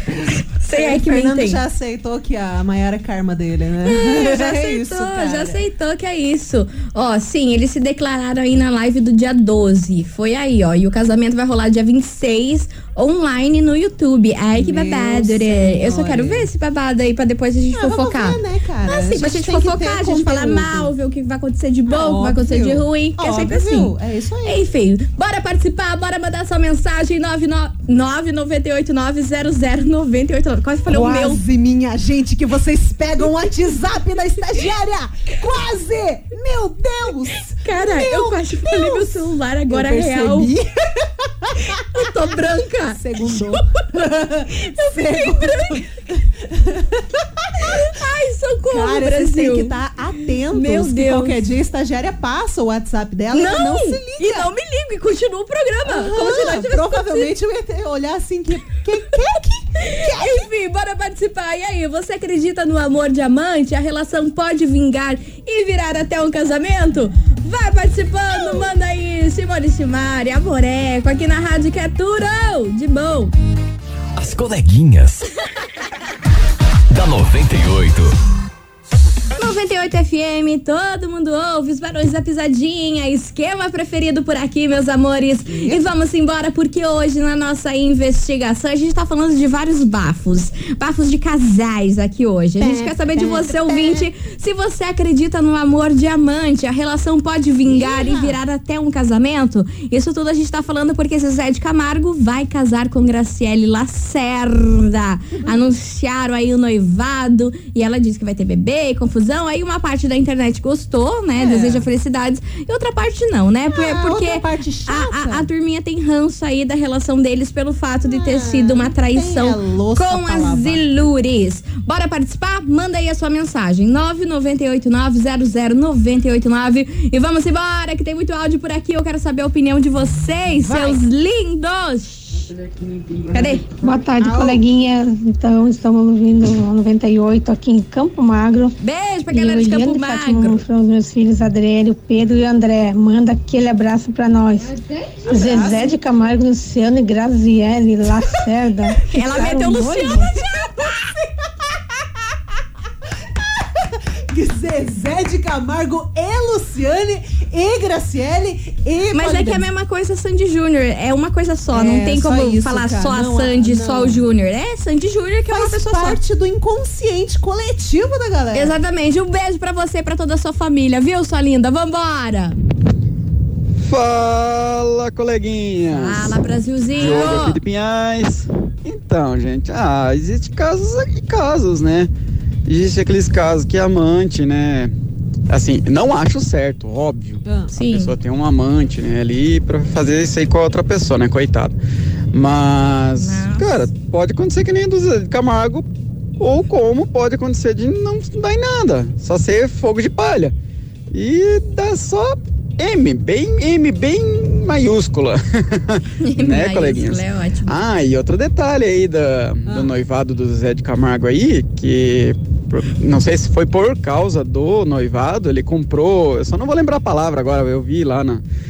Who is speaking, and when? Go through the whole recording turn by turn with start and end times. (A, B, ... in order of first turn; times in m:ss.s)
0:00.6-0:01.6 A
0:00.7-0:05.6 B
0:03.8-0:23.9 A
0:14.5-0:16.5 B
0:17.7-0:20.9 B
0:21.9-0:24.6 B
0:24.4-0:31.4 A
0:30.9-0:41.8 B
0:37.6-0:40.5 A
0:41.9-0:43.5 A
0:42.9-0:47.8 B
0:44.5-0:45.8 A
0:47.6-0:49.8 A
0:48.7-0:54.5 B
0:50.5-0:51.4 A
0:53.3-0:57.3 A
0:55.8-1:00.5 B
0:59.8-1:13.3 A
1:08.3-1:08.7 B
1:14.2-1:15.2 C
1:16.9-1:18.1 C
1:19.4-2:12.4 A
1:25.5-1:25.8 B
1:32.6-1:34.0 B
1:37.6-1:38.4 B
1:51.4-1:51.8 B
1:53.7-1:55.5 B
1:58.0-2:00.8 B
2:10.6-2:11.0 B
2:13.3-2:13.7 A
2:13.7-2:18.7 D
2:14.2-2:14.6 B
2:18.8-2:20.6 A
2:19.3-2:30.3 D
2:25.3-2:26.0 B
2:29.1-2:30.9 A
2:29.3-2:30.1 B
2:33.6-2:39.6 B
2:39.1-2:46.2 A
2:41.7-2:44.2 B
2:45.5-2:48.7 B
2:48.5-2:52.6 A
2:53.8-3:02.1 E
2:55.9-2:57.6 A
2:57.0-2:57.4 B
3:02.6-3:04.9 E
3:05.5-3:11.7 E
3:07.4-3:07.7 B
3:07.7-3:08.1 A
3:12.3-3:15.9 E
3:13.2-3:13.9 A
3:16.4-3:20.5 E
3:21.1-3:38.4 E
3:26.2-3:27.7 A
3:29.6-3:29.9 B